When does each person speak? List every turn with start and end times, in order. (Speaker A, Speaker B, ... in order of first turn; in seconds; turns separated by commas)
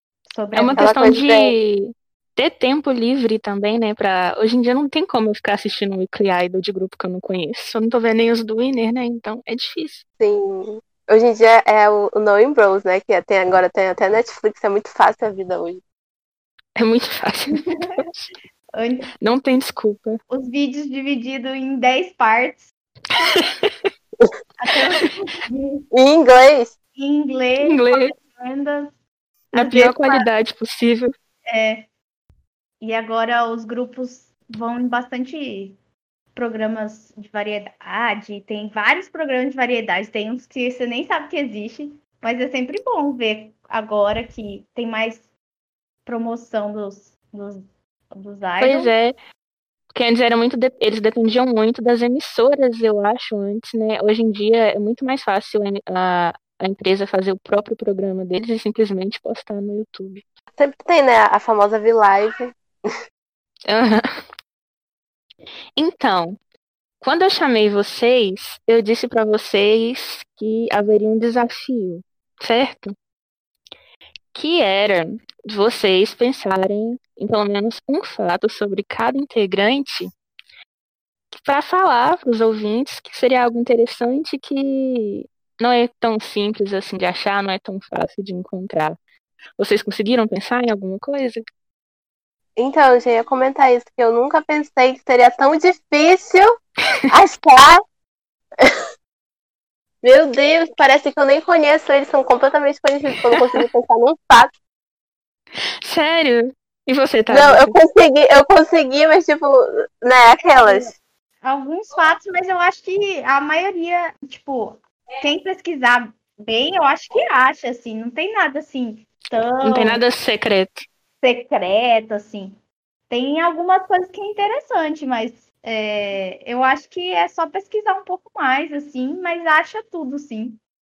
Speaker A: 0.2-1.0, Speaker B: 0.5-10.0, Speaker C: 0.7-1.5, Speaker C: 10.2-15.8, Speaker B: 16.8-18.3, Speaker A: 17.5-18.0, Speaker A: 18.8-19.1, Speaker B: 19.2-20.2, Speaker A: 20.3-22.7, Speaker B: 23.3-23.7, Speaker A: 24.6-25.9, Speaker C: 25.9-26.7, Speaker A: 26.9-28.9, Speaker B: 27.6-28.1, Speaker A: 29.5-30.3, Speaker B: 29.5-31.1, Speaker A: 31.5-31.9, Speaker A: 32.8-35.8, Speaker A: 36.3-45.3, Speaker A: 46.0-48.9, Speaker B: 48.6-49.1, Speaker B: 49.9-60.2, Speaker C: 60.6-62.5, Speaker B: 63.7-64.2, Speaker B: 65.8-66.4, Speaker B: 67.0-72.9, Speaker B: 74.3-80.1, Speaker B: 81.4-89.0, Speaker B: 89.6-91.4, Speaker C: 92.6-96.5, Speaker C: 97.1-97.8, Speaker C: 100.0-104.5, Speaker B: 105.8-107.7, Speaker C: 107.3-110.9, Speaker A: 111.4-120.0, Speaker B: 119.6-120.8, Speaker A: 121.2-122.6, Speaker A: 123.1-130.6